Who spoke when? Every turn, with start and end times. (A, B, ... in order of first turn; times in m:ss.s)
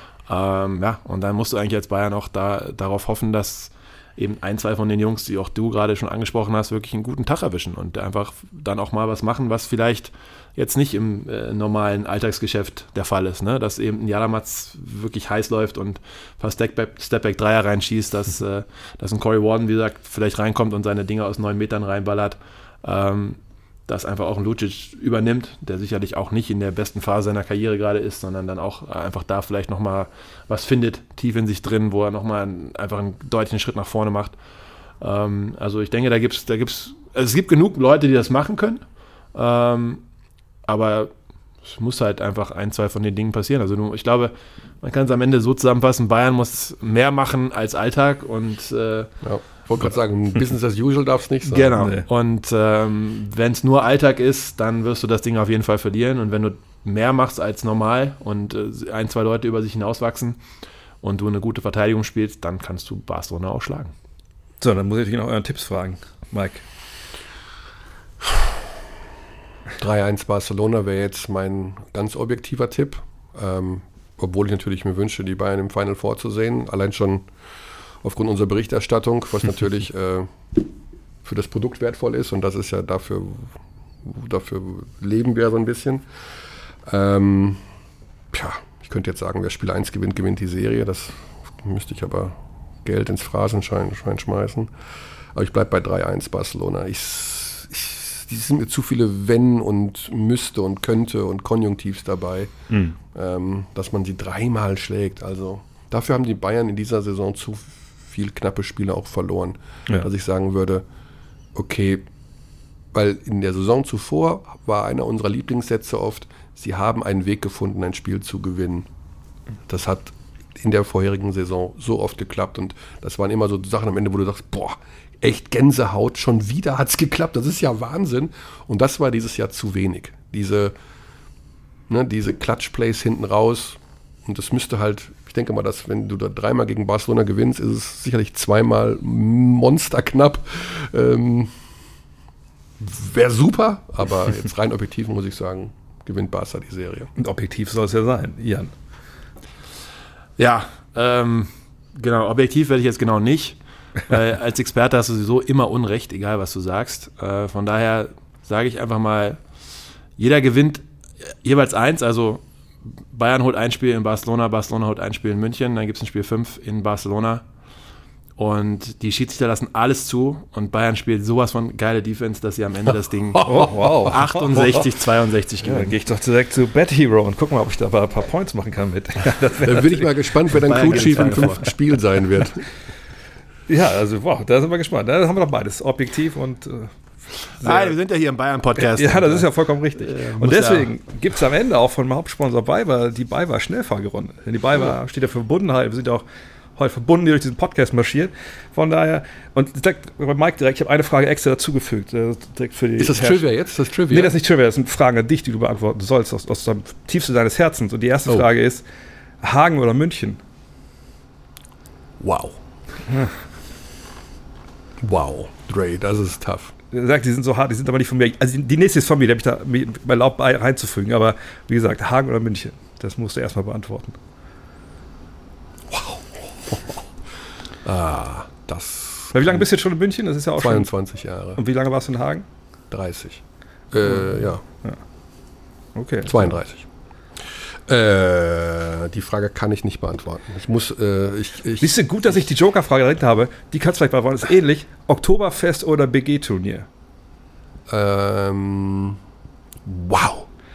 0:00.3-0:34.4 A
0:35.0-0:38.8 A
0:39.3-0:40.0 A
0:40.6-0:49.1 A
0:49.2-0:51.8 B
0:51.4-1:00.4 A
0:51.8-0:52.0 C
1:01.0-1:03.9 A
1:04.6-1:06.6 C
1:09.8-1:17.3 B
1:18.0-1:20.7 B
1:21.2-1:26.0 B
1:26.8-1:27.6 B
1:28.3-1:34.7 B
1:35.3-1:42.5 B
1:42.7-1:43.0 C
1:43.1-1:50.8 B
1:51.5-1:52.1 B
1:52.9-1:58.9 B
1:59.7-2:10.7 B
2:11.9-2:21.5 B
2:22.8-2:27.1 B
2:27.2-2:28.7 C
2:30.4-2:39.4 A
2:40.2-2:42.4 A
2:43.1-2:47.4 A
2:48.4-2:56.0 A
2:53.3-2:53.7 B
2:53.4-2:54.9 C
2:55.6-3:01.5 C
2:59.6-3:02.6 B
3:00.6-3:01.6 A
3:03.7-3:07.9 C
3:07.6-3:10.9 A
3:08.8-3:16.2 C
3:16.8-3:23.4 C
3:23.0-3:24.3 B
3:24.1-3:28.8 C
3:29.4-3:30.4 C
3:32.2-3:32.6 B
3:35.0-3:36.7 B
3:36.9-3:44.2 C
3:45.9-3:47.0 B
3:47.8-3:49.6 B
3:49.3-3:50.9 C
3:50.6-3:51.6 B
3:51.6-3:52.4 C
3:52.9-3:54.6 B
3:55.9-3:56.5 C
3:56.2-3:56.8 B
3:57.9-4:02.4 B
4:01.8-4:06.9 C
4:07.9-4:09.2 B
4:09.8-4:10.5 B